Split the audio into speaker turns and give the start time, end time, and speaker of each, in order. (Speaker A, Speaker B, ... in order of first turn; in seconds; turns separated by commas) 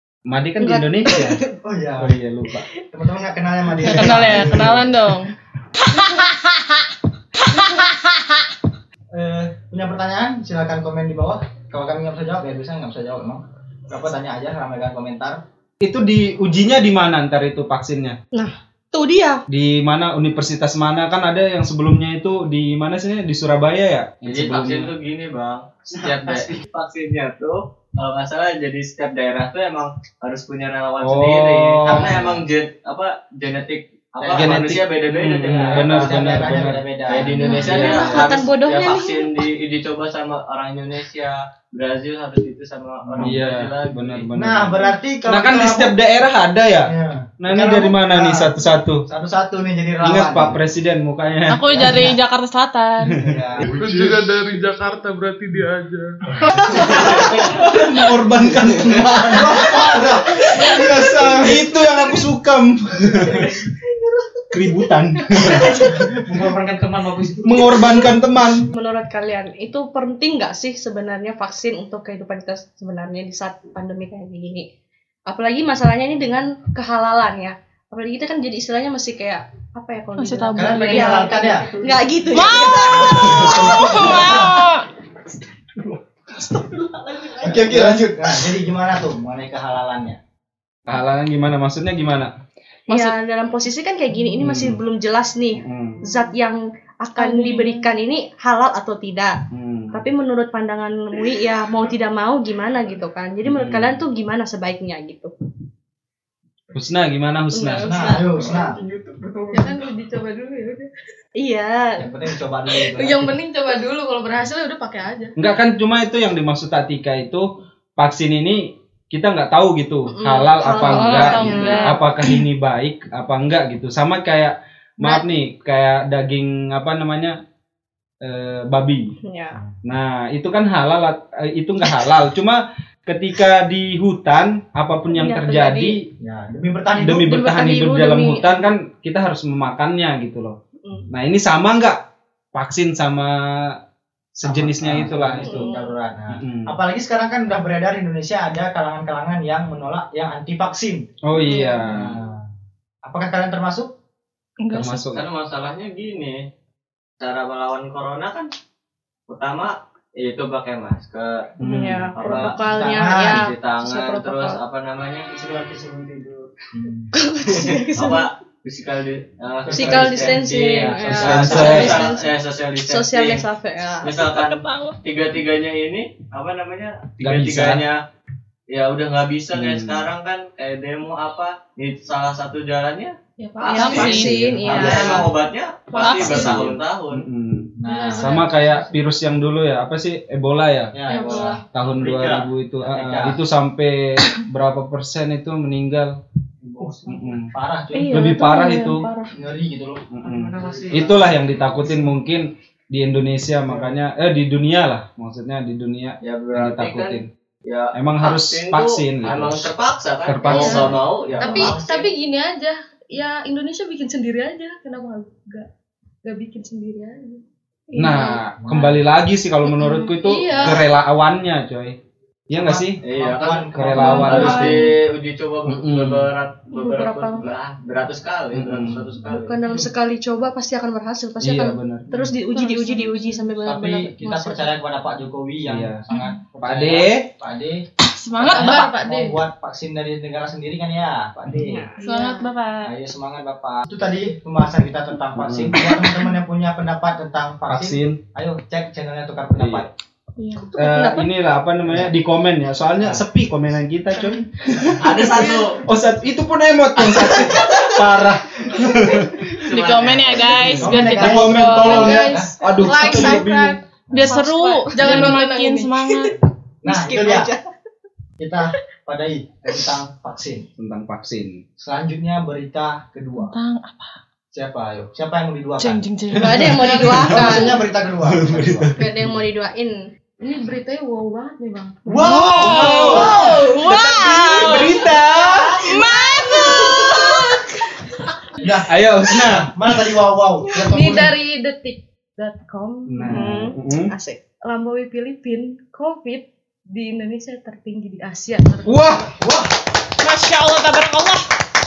Speaker A: 0.3-1.4, Speaker B: 0.6-1.5, Speaker C: 1.6-2.1, Speaker A: 2.0-2.7, Speaker C: 2.9-4.9, Speaker D: 3.8-5.3, Speaker A: 4.0-4.9, Speaker D: 6.0-6.3, Speaker D: 7.5-8.0, Speaker C: 9.1-15.4, Speaker A: 15.8-18.2, Speaker B: 18.3-19.4, Speaker A: 19.5-24.9, Speaker E: 24.2-36.2, Speaker A: 31.0-32.4, Speaker C: 31.9-32.4, Speaker C: 34.2-34.7, Speaker A: 34.3-36.8, Speaker C: 35.6-37.4, Speaker E: 37.1-44.3, Speaker A: 37.4-38.3, Speaker B: 37.4-39.5, Speaker C: 43.1-43.4, Speaker A: 43.2-49.0, Speaker C: 44.3-46.0, Speaker C: 46.9-50.6, Speaker A: 50.0-52.1, Speaker D: 51.5-53.2, Speaker C: 51.7-52.1, Speaker A: 53.1-53.4, Speaker C: 53.2-53.7, Speaker F: 53.6-56.7, Speaker E: 56.8-57.9, Speaker A: 56.9-59.9, Speaker E: 58.6-59.1, Speaker C: 59.3-61.6, Speaker A: 60.8-63.5, Speaker A: 64.5-66.1, Speaker B: 65.6-65.8, Speaker C: 66.0-67.5, Speaker A: 67.4-68.7, Speaker B: 67.7-68.1, Speaker B: 68.6-74.7, Speaker B: 75.3-84.5, Speaker D: 80.2-81.3, Speaker C: 80.5-81.7, Speaker G: 81.0-82.4, Speaker D: 82.3-84.8, Speaker C: 83.1-84.5, Speaker A: 83.4-83.7, Speaker E: 87.2-88.0, Speaker C: 87.4-90.2, Speaker A: 87.6-88.0, Speaker A: 90.9-92.3, Speaker D: 92.9-93.1, Speaker B: 92.9-105.3, Speaker A: 94.4-94.8, Speaker A: 95.6-96.0, Speaker D: 97.2-97.9, Speaker A: 99.5-100.0, Speaker A: 103.4-104.0, Speaker A: 106.7-107.9, Speaker B: 107.5-108.7, Speaker C: 107.8-108.8, Speaker F: 108.3-109.9, Speaker G: 109.5-110.9, Speaker B: 111.4-112.1, Speaker C: 112.0-113.3, Speaker G: 112.8-115.3, Speaker A: 115.4-117.5, Speaker A: 118.0-127.4, Speaker B: 120.1-122.0, Speaker D: 120.6-122.0, Speaker A: 128.2-129.1, Speaker B: 129.2-129.6, Speaker A: 129.8-136.0, Speaker B: 135.1-136.0, Speaker C: 136.2-137.4, Speaker A: 136.9-140.6, Speaker B: 137.2-138.6, Speaker A: 141.1-142.0, Speaker A: 142.5-143.7, Speaker A: 144.4-145.7, Speaker C: 144.4-151.0, Speaker B: 145.4-145.9, Speaker A: 146.3-146.7, Speaker A: 151.2-152.2, Speaker C: 151.8-152.4, Speaker C: 153.0-153.9, Speaker D: 154.6-155.1, Speaker A: 154.7-155.2, Speaker E: 155.1-156.4, Speaker E: 157.2-158.5, Speaker E: 159.3-166.5, Speaker A: 161.6-162.1, Speaker B: 161.6-164.6, Speaker C: 162.6-163.5, Speaker C: 166.7-167.1, Speaker B: 167.1-168.3, Speaker E: 167.4-173.4, Speaker C: 169.7-170.4, Speaker B: 169.7-174.3, Speaker A: 170.8-172.1, Speaker E: 174.0-178.0, Speaker A: 177.2-177.8, Speaker E: 178.7-187.2, Speaker A: 179.5-180.1, Speaker G: 183.4-184.2, Speaker B: 183.6-185.3, Speaker D: 183.7-185.3, Speaker C: 184.6-185.0, Speaker G: 185.9-186.6, Speaker D: 185.9-186.6, Speaker A: 186.3-196.2, Speaker C: 187.8-188.4, Speaker G: 187.8-188.9, Speaker C: 190.9-191.6, Speaker B: 191.1-191.6, Speaker E: 192.0-192.4, Speaker C: 192.9-193.4, Speaker C: 196.6-198.4, Speaker A: 197.0-197.5, Speaker D: 197.9-199.3, Speaker A: 198.1-199.1, Speaker C: 199.3-200.0, Speaker A: 200.1-207.3, Speaker E: 200.2-201.2, Speaker C: 203.7-203.9, Speaker E: 206.2-212.1, Speaker A: 207.9-209.7, Speaker A: 210.2-211.7, Speaker G: 210.5-215.7, Speaker C: 211.4-211.8, Speaker G: 216.2-218.4, Speaker A: 217.9-222.0, Speaker C: 218.6-219.0, Speaker G: 219.8-220.8, Speaker A: 222.5-223.0, Speaker C: 222.5-224.7, Speaker E: 223.0-229.6, Speaker A: 223.7-224.9, Speaker G: 224.2-224.6, Speaker A: 225.7-226.3, Speaker B: 226.7-227.5, Speaker A: 228.5-229.1, Speaker B: 229.2-234.8, Speaker A: 231.4-232.1, Speaker D: 232.5-233.4, Speaker C: 233.6-237.8, Speaker A: 235.6-236.0, Speaker D: 236.1-236.4, Speaker A: 236.6-237.3, Speaker D: 238.0-238.9, Speaker C: 238.4-241.9, Speaker G: 238.5-239.4, Speaker B: 241.6-242.3, Speaker G: 242.0-242.5, Speaker D: 242.0-242.9, Speaker C: 242.8-249.9, Speaker A: 245.3-245.8, Speaker A: 247.7-248.2, Speaker A: 249.6-249.9, Speaker G: 250.4-250.7, Speaker B: 250.6-251.3, Speaker A: 250.8-259.5, Speaker C: 251.8-252.1, Speaker E: 255.0-255.8, Speaker E: 257.1-258.0, Speaker E: 259.6-260.8, Speaker D: 259.7-262.3, Speaker A: 260.4-263.8, Speaker C: 260.8-262.5, Speaker G: 261.8-266.3, Speaker C: 264.1-264.4, Speaker D: 264.1-266.3, Speaker C: 266.8-267.5, Speaker B: 266.8-267.7, Speaker C: 268.4-270.6, Speaker A: 270.8-271.6, Speaker C: 271.8-273.5, Speaker D: 273.4-274.1, Speaker C: 274.5-276.0, Speaker D: 275.8-277.1, Speaker A: 276.3-279.4, Speaker B: 276.3-277.8, Speaker C: 276.8-278.9, Speaker B: 278.9-280.0, Speaker G: 280.4-282.3, Speaker C: 282.1-283.5, Speaker A: 282.2-285.8, Speaker D: 282.2-285.1, Speaker G: 283.0-283.9, Speaker C: 284.6-285.8, Speaker G: 284.7-285.3, Speaker D: 285.8-287.4, Speaker G: 286.2-287.6, Speaker B: 286.6-286.9, Speaker C: 288.6-291.4, Speaker A: 288.9-289.7, Speaker G: 290.7-293.2, Speaker A: 293.1-294.1, Speaker B: 293.2-294.4, Speaker G: 294.6-299.1, Speaker A: 298.8-299.3, Speaker C: 299.4-299.7, Speaker D: 300.2-301.4